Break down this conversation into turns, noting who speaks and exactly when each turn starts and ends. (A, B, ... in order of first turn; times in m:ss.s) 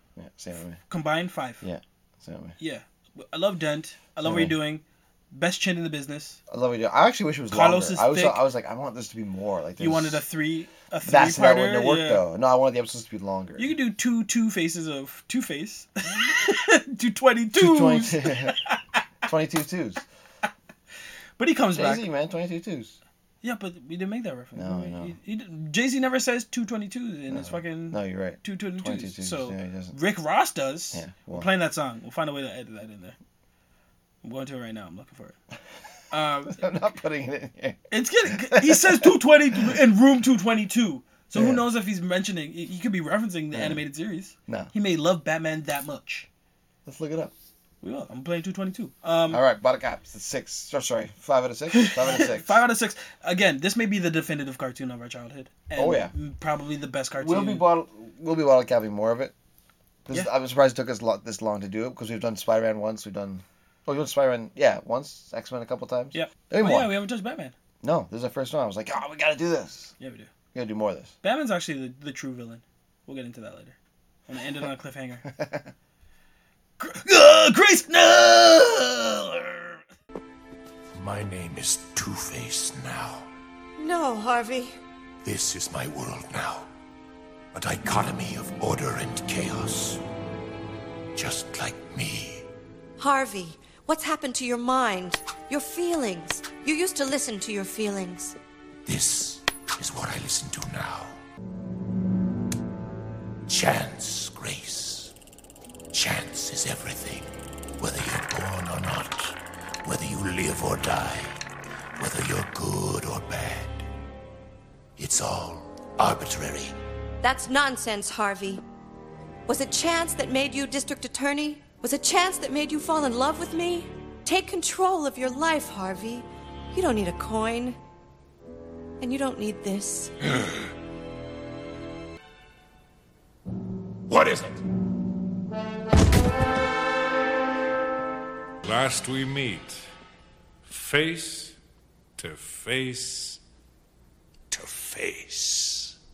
0:00.2-0:00.8 A
0:00.9-0:01.6 B
0:01.6-0:02.6 A
0:02.6-0:06.4 B
0:04.2-0:04.6 A
0:06.5-0:10.2 A
0:07.5-0:08.4 B
0:09.8-0:12.2 B
0:11.0-0:13.7 A
0:13.6-0:19.0 B
0:17.5-0:18.6 A
0:19.3-0:20.0 A
0:21.4-0:22.1 B
0:21.7-0:23.0 A
0:23.4-0:33.2 B
0:24.6-0:25.2 A
0:27.3-0:30.0 A
0:30.9-0:31.5 A
0:34.2-0:35.4 B
0:36.1-0:36.6 B
0:36.5-0:37.8 A
0:37.9-0:46.3 B
0:38.4-0:39.1 A
0:41.3-0:41.6 A
0:43.5-0:43.8 A
0:46.9-0:47.3 A
0:47.8-0:49.4 B
0:49.3-0:52.6 A
0:51.7-0:57.7 B
0:55.8-0:56.1 A
0:57.2-0:59.3 A
1:00.0-1:06.9 A
1:06.1-1:07.5 B
1:07.8-1:09.9 A
1:10.0-1:10.3 B
1:10.5-1:11.1 A
1:11.2-1:13.8 B
1:14.3-1:15.3 B
1:15.3-1:15.7 A
1:16.8-1:19.8 B
1:21.0-1:23.3 C
1:23.8-1:24.7 D
1:25.2-1:26.7 C
1:27.5-1:30.0 C
1:31.2-1:32.5 C
1:33.0-1:38.4 D
1:38.9-1:41.2 C
1:43.5-1:45.1 C
1:45.9-1:51.3 C
1:52.0-1:53.8 C
1:55.0-1:56.8 C
1:57.2-1:58.6 D
1:59.5-2:07.8 D
2:09.0-2:10.1 D
2:14.1-2:14.6 C
2:18.6-2:19.8 E
2:20.7-2:21.6 E
2:22.2-2:23.4 E
2:24.5-2:26.0 C